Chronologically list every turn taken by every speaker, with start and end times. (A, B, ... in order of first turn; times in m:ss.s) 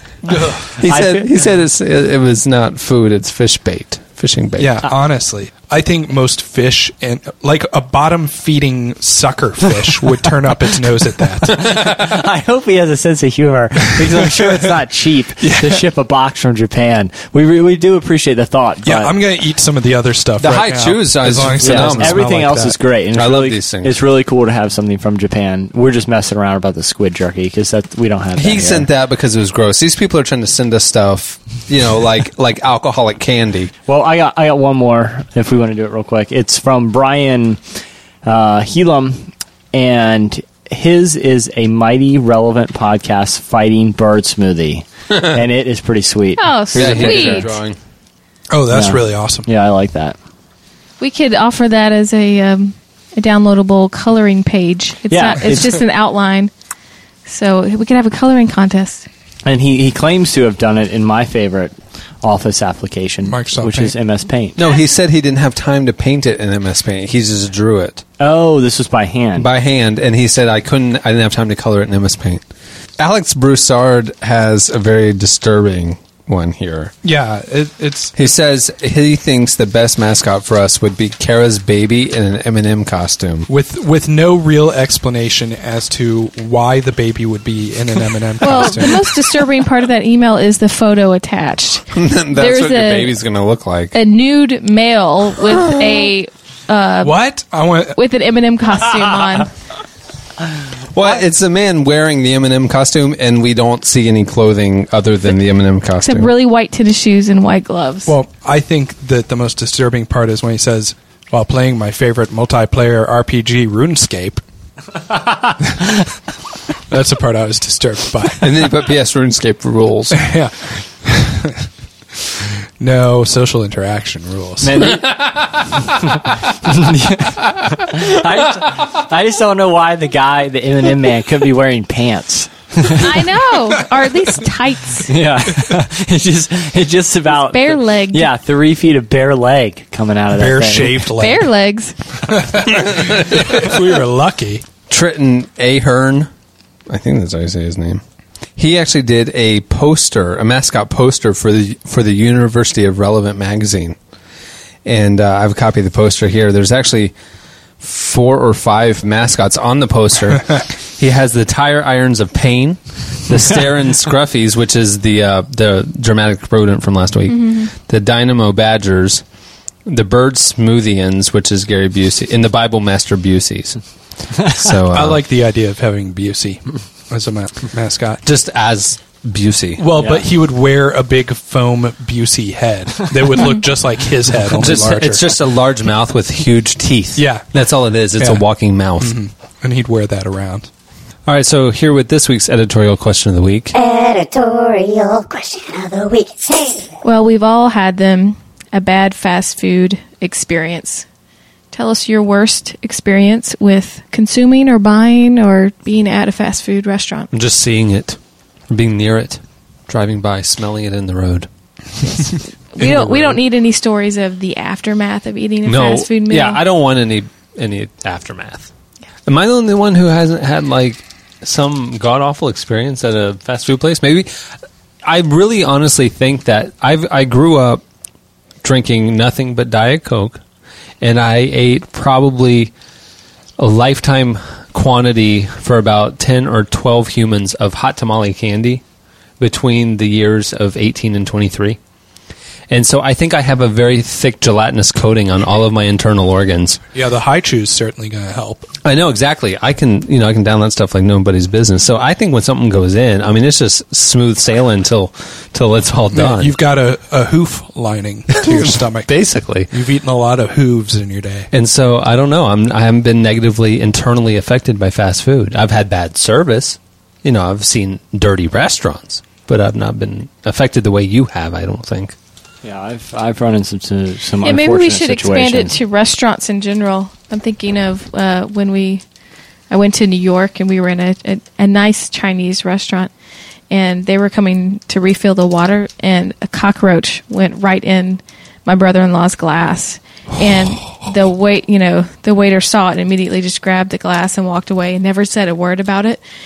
0:00.2-0:00.8 A
0:00.7-0:04.9 B
0:00.8-0:01.4 C
0:04.6-0:11.7 A
0:11.5-0:19.2 C
0:14.2-0:14.5 A
0:15.4-0:15.8 A
0:18.8-0:22.8 A
0:20.4-0:22.3 B
0:21.6-0:28.9 C
0:23.1-0:24.0 B
0:28.4-0:33.7 B
0:33.9-0:47.5 C
0:46.4-0:47.5 D
0:46.7-0:47.8 B
0:48.5-0:49.5 A
0:48.7-0:50.2 C
0:51.0-0:56.5 D
0:55.1-0:55.8 C
0:57.3-0:59.1 D
0:59.4-1:04.6 C
1:03.2-1:04.0 A
1:04.6-1:08.0 B
1:08.2-1:09.5 C
1:09.4-1:12.4 B
1:13.0-1:16.9 B
1:17.0-1:18.1 A
1:18.2-1:23.5 B
1:23.5-1:29.4 A
1:28.4-1:33.2 D
1:31.9-1:34.0 B
1:33.9-1:37.2 D
1:37.0-1:38.0 A
1:38.0-1:39.5 D
1:40.9-1:46.3 B
1:46.0-1:48.2 D
1:48.1-1:54.4 A
1:55.6-1:55.9 A
1:56.9-1:58.7 A
1:58.4-2:00.3 B
2:00.1-2:01.7 A
2:02.2-2:05.0 A
2:04.6-2:05.0 C
2:05.0-2:05.9 B
2:06.5-2:13.2 C
2:12.9-2:15.1 D
2:15.1-2:21.1 C
2:17.3-2:18.3 D
2:20.4-2:21.5 A
2:21.2-2:22.0 D
2:22.3-2:24.6 A
2:22.9-2:23.4 B
2:24.9-2:26.3 B
2:26.9-2:28.0 B
2:28.6-2:34.0 B
2:34.8-2:37.1 B
2:37.8-2:49.2 B
2:47.3-2:47.7 D
2:49.9-2:53.8 B
2:54.3-2:55.2 B
2:54.9-2:58.2 A
2:58.2-2:59.9 B
2:59.8-3:05.4 A
3:04.5-3:09.2 B
3:07.2-3:07.5 A
3:08.2-3:08.4 A
3:09.0-3:10.7 A
3:11.3-3:13.7 B
3:13.7-3:16.9 E
3:17.0-3:21.0 D
3:21.7-3:27.3 D
3:27.3-3:28.2 B
3:28.7-3:31.5 B
3:32.1-3:33.4 B
3:32.8-3:36.6 D
3:35.6-3:38.7 B
3:39.3-3:44.3 B
3:45.0-3:47.8 B
3:48.6-3:50.4 B
3:51.0-3:52.7 B
3:53.6-3:58.8 B
3:59.4-4:01.8 B
4:02.7-4:06.8 B
4:06.9-4:08.7 A
4:08.8-4:16.6 B
4:16.1-4:19.1 A
4:18.3-4:19.7 B
4:19.7-4:21.5 A
4:21.5-4:32.2 B
4:32.6-4:35.8 C
4:34.4-4:39.0 D
4:39.7-4:43.1 D
4:43.7-4:56.2 D